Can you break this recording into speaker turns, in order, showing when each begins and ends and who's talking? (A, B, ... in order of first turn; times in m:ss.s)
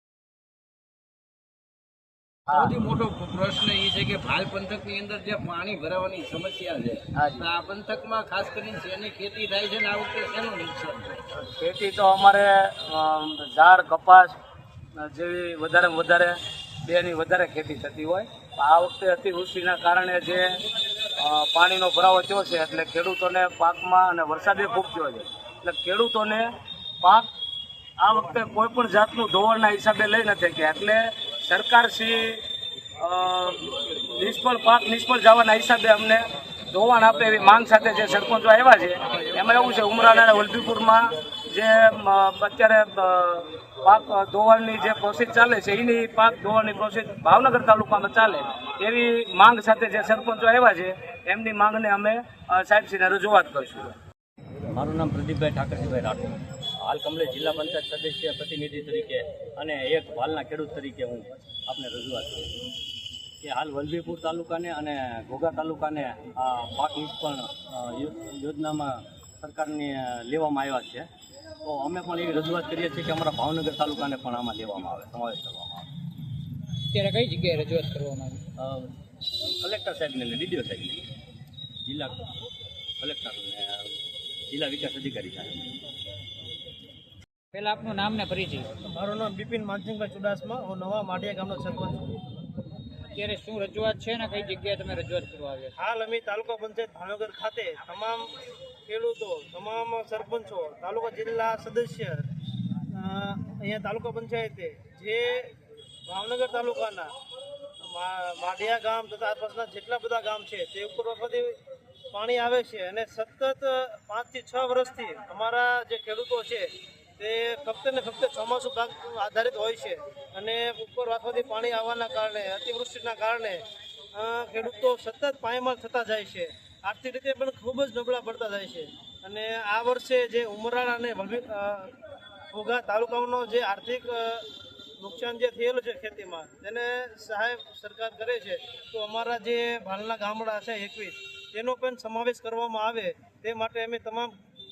0:02.5-0:11.2 A
0:11.3-0:14.3 B
0:15.0-0:20.4 B
0:21.2-0:26.5 B
0:27.0-0:27.3 B
0:28.0-0:32.4 B
0:33.0-0:53.9 B
0:54.7-1:02.5 C
1:03.4-1:11.1 C
1:11.6-1:15.9 C
1:16.9-1:18.4 D
1:18.6-1:18.9 C
1:19.6-1:21.0 C
1:21.8-1:22.2 C
1:23.0-1:23.9 C
1:24.5-1:25.7 C
1:27.5-1:28.7 D
1:28.8-1:32.2 E
1:33.1-1:35.7 D
1:35.8-1:38.3 E
1:38.9-1:42.3 E
1:42.9-1:45.5 E
1:46.1-1:47.1 E
1:47.8-1:51.6 E
1:52.1-2:03.6 E
2:04.1-2:11.9 E
2:12.5-2:14.4 E
2:15.0-2:24.3 E